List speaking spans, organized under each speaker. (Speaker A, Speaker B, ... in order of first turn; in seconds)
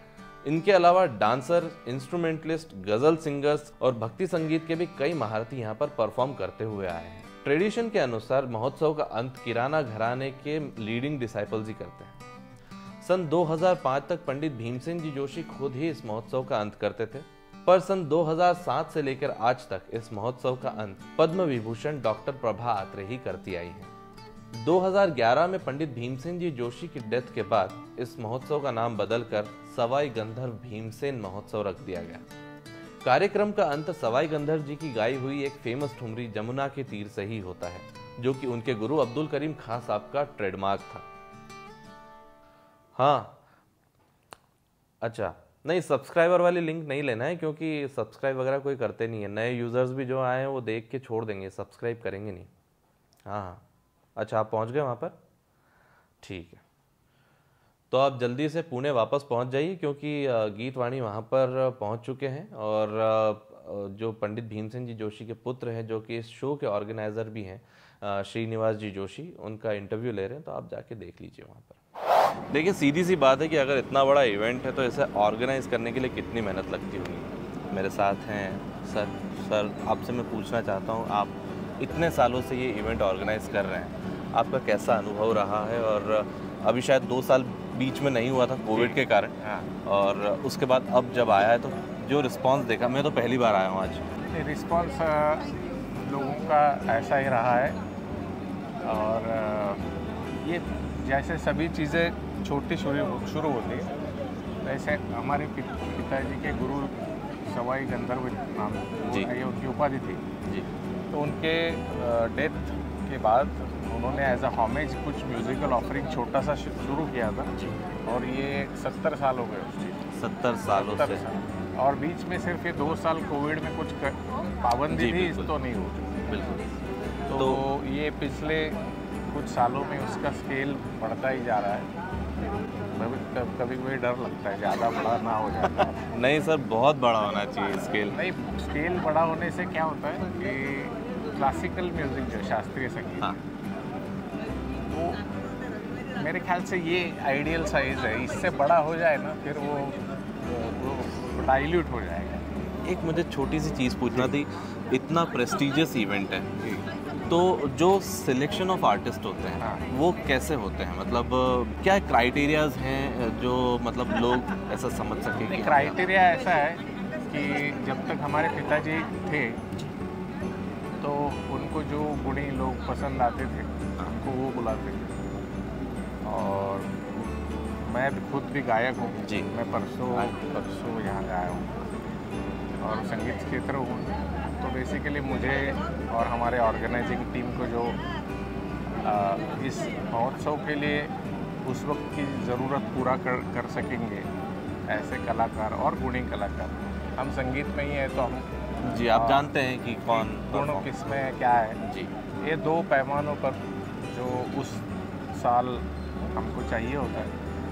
Speaker A: 0.4-12.2, 13.0-23.9, 24.5-32.2, 33.0-41.0, 43.0-43.4, 45.0-52.5, 53.3-53.6, 54.2-55.1, 56.2-56.6, 57.9-71.8, 72.5-94.0, 120.1-121.2, 124.9-125.5, 126.3-126.8, 127.3-127.6, 135.8-138.2, 152.8-156.7, 157.3-166.0, 198.8-200.9, 201.8-202.1
Speaker B: 88.7-89.7, 94.3-97.8, 98.8-99.8, 100.4-103.9, 104.6-110.2, 111.1-117.5, 118.0-120.1, 120.7-126.2, 127.3-128.8, 129.3-131.9, 132.9-136.1, 138.1-143.4, 144.9-145.2, 146.2-152.5, 159.6-159.9, 165.4-169.6, 171.0-175.2, 176.2-177.1, 177.8-181.7, 182.8-188.0, 189.0-191.1, 191.6-194.3, 194.9-198.5, 199.1-199.6, 200.1-201.8, 202.4-204.8, 205.3-207.4